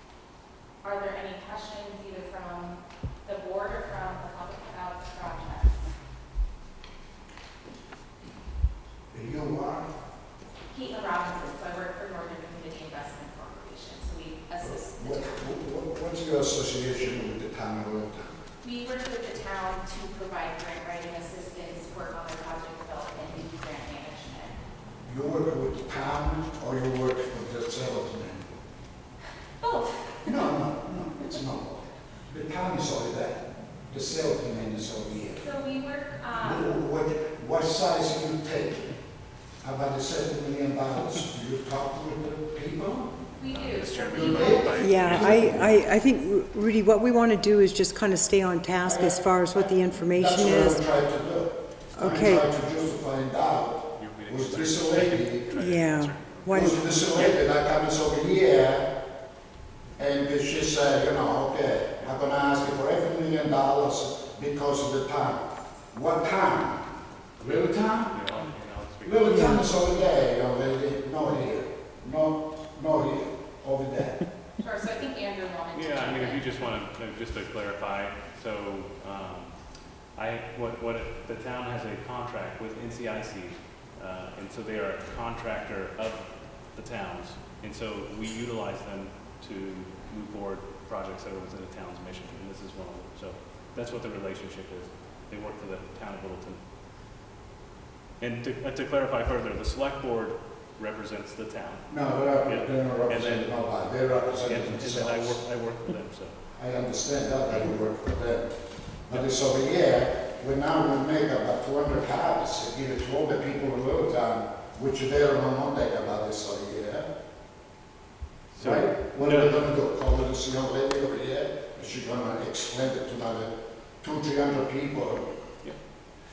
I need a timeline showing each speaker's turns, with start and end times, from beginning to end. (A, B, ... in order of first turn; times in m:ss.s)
0:00.8-0:05.8 A
0:09.1-0:09.9 B
0:10.7-0:15.4 A
0:14.6-0:18.4 B
0:18.6-0:24.6 A
0:25.0-0:28.5 B
0:29.6-0:30.2 A
0:30.2-0:35.5 B
0:35.4-0:36.7 A
0:36.4-0:39.0 B
0:39.6-0:43.2 B
0:43.4-0:45.3 A
0:43.5-0:45.9 C
0:44.0-0:45.8 B
0:44.8-0:50.8 D
0:48.8-0:55.5 B
0:51.9-0:52.5 D
0:54.0-0:57.4 C
0:55.5-0:57.3 D
0:56.5-0:58.9 B
1:00.0-1:06.8 B
1:07.4-1:08.2 B
1:08.1-1:09.3 C
1:09.0-1:14.2 B
1:09.3-1:09.7 D
1:14.6-1:16.5 A
1:15.7-1:19.5 C
1:20.2-1:36.6 C
1:38.2-1:41.9 C
1:41.9-1:45.4 B
1:42.4-1:43.5 C
1:44.4-1:46.4 C
1:46.6-1:48.6 B
1:49.1-1:57.1 B
1:58.5-1:59.5 C
1:58.6-2:05.3 B